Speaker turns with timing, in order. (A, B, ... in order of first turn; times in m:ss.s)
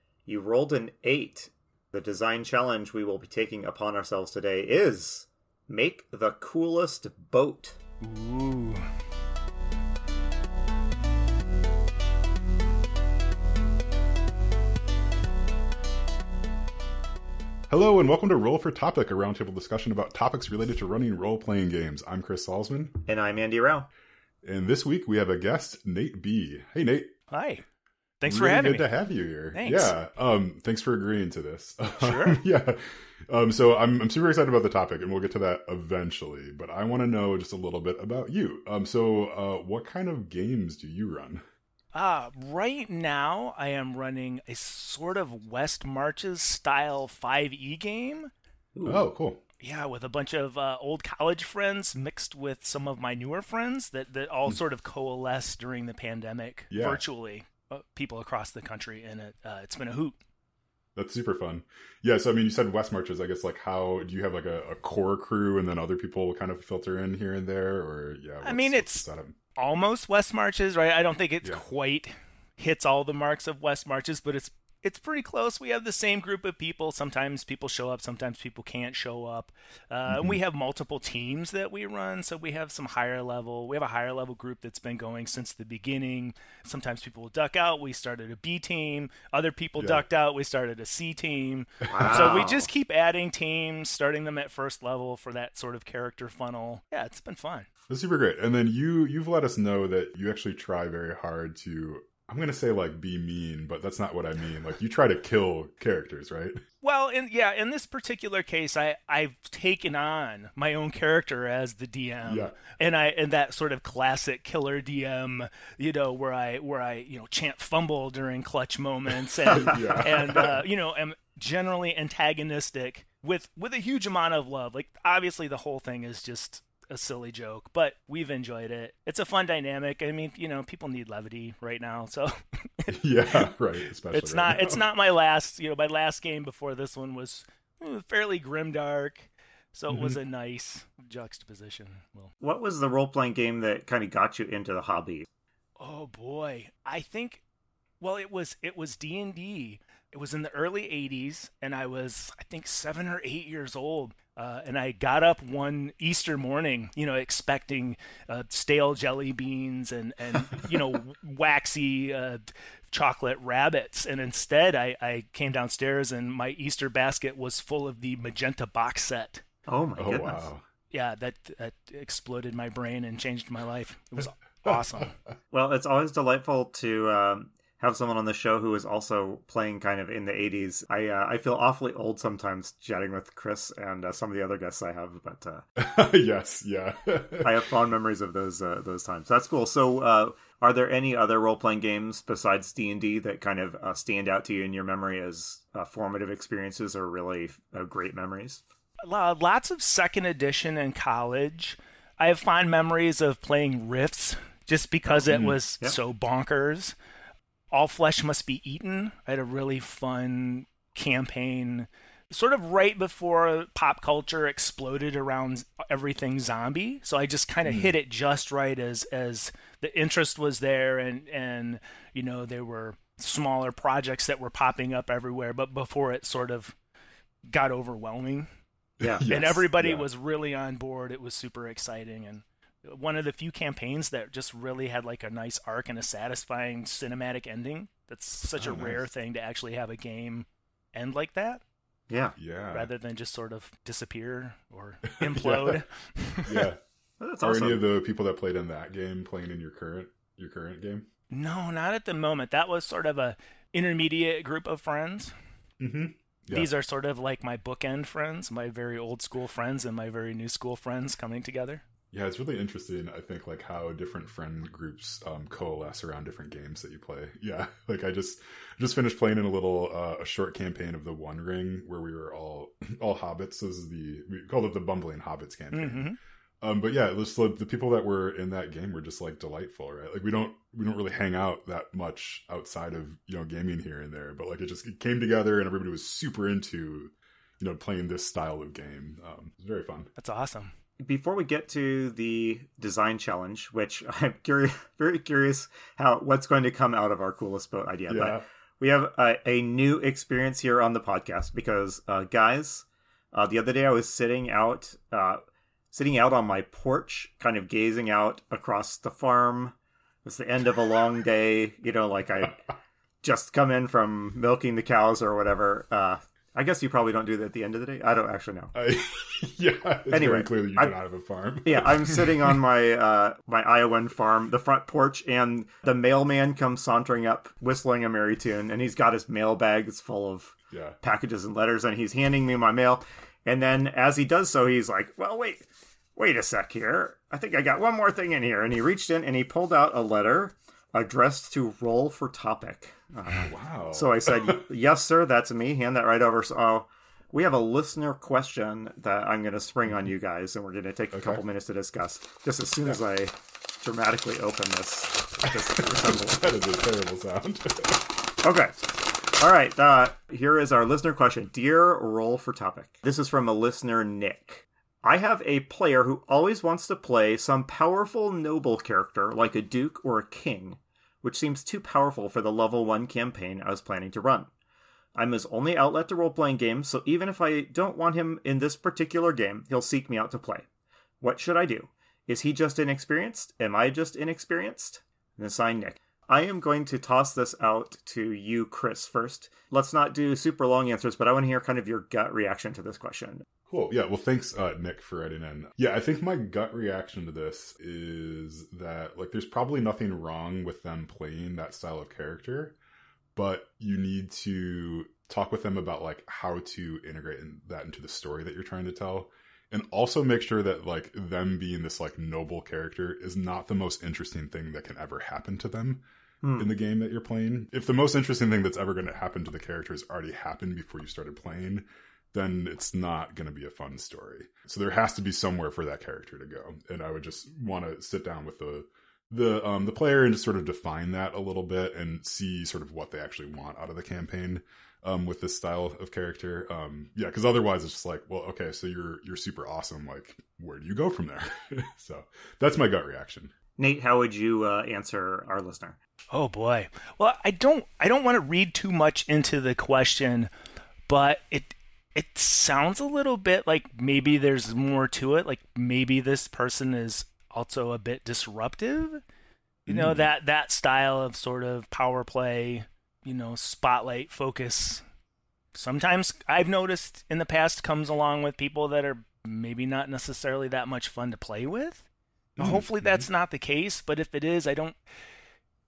0:00.3-0:07.8 A
0:08.0-0:08.9 B
0:17.7-0:23.0 C
0:23.1-0:23.9 A
0:24.4-0:27.1 C
0:27.3-0:27.6 B
0:28.2-0:28.9 B
0:28.3-0:41.4 C
0:29.5-0:29.9 B
0:32.0-0:32.4 B
0:41.9-0:48.3 B
0:48.8-0:49.0 A
0:48.8-0:49.4 C
0:49.6-1:00.2 B
0:56.7-0:57.0 C
1:01.0-1:09.4 C
1:08.4-1:37.7 B
1:20.1-1:20.4 C
1:29.8-1:30.0 C
1:31.9-1:32.6 C
1:31.9-1:32.6 A
1:37.9-1:46.6 C
1:46.8-2:13.0 B
1:52.2-1:52.6 C
1:59.5-1:59.8 A
1:59.5-2:00.6 C
2:12.9-2:14.8 C
2:14.1-2:22.3 B
2:19.9-2:20.2 C
2:22.4-2:25.3 A
2:25.8-2:27.4 B
2:28.0-2:49.4 B
2:49.7-2:50.5 A
2:50.0-2:50.6 C
2:50.9-2:55.1 B
2:55.5-3:05.6 A
3:05.8-3:07.7 C
3:07.4-3:18.6 A
3:19.0-3:27.0 B
3:25.3-3:25.6 C
3:27.7-3:46.8 B
3:37.6-3:38.0 C
3:47.5-3:48.5 B
3:49.0-3:50.1 C
3:49.0-3:49.4 A
3:49.3-4:01.6 B
3:58.6-3:59.1 C
4:02.1-4:02.4 A
4:02.4-4:02.9 C
4:02.7-4:06.6 B
4:05.2-4:05.8 C
4:06.4-4:06.8 C
4:07.2-4:07.8 A
4:07.4-4:11.1 C
4:11.3-4:15.3 B
4:15.8-4:16.7 C
4:16.5-4:21.8 B
4:22.1-4:50.1 C
4:35.7-4:36.2 B
4:50.2-4:50.7 B
4:51.0-5:05.4 A
4:58.1-4:58.4 C
5:05.9-5:09.7 A
5:10.2-5:12.6 A
5:13.2-5:18.7 A
5:18.8-5:22.6 C
5:20.1-5:21.0 A
5:21.6-5:35.6 A
5:30.7-5:31.0 C
5:36.2-5:56.4 A
5:43.3-5:44.6 C
5:51.1-5:51.4 C
5:55.5-5:58.1 C
5:58.4-6:14.5 A
6:15.2-6:20.7 A
6:21.2-6:33.5 A
6:33.7-6:42.8 C
6:43.4-6:56.0 C
6:56.4-6:56.7 A
6:56.6-7:23.5 C
7:23.8-7:26.0 A
7:26.3-7:30.5 B
7:31.1-7:39.2 B
7:39.9-7:40.3 C
7:39.9-7:45.0 B
7:45.7-7:52.0 B
7:52.6-7:53.3 C
7:52.6-7:55.0 B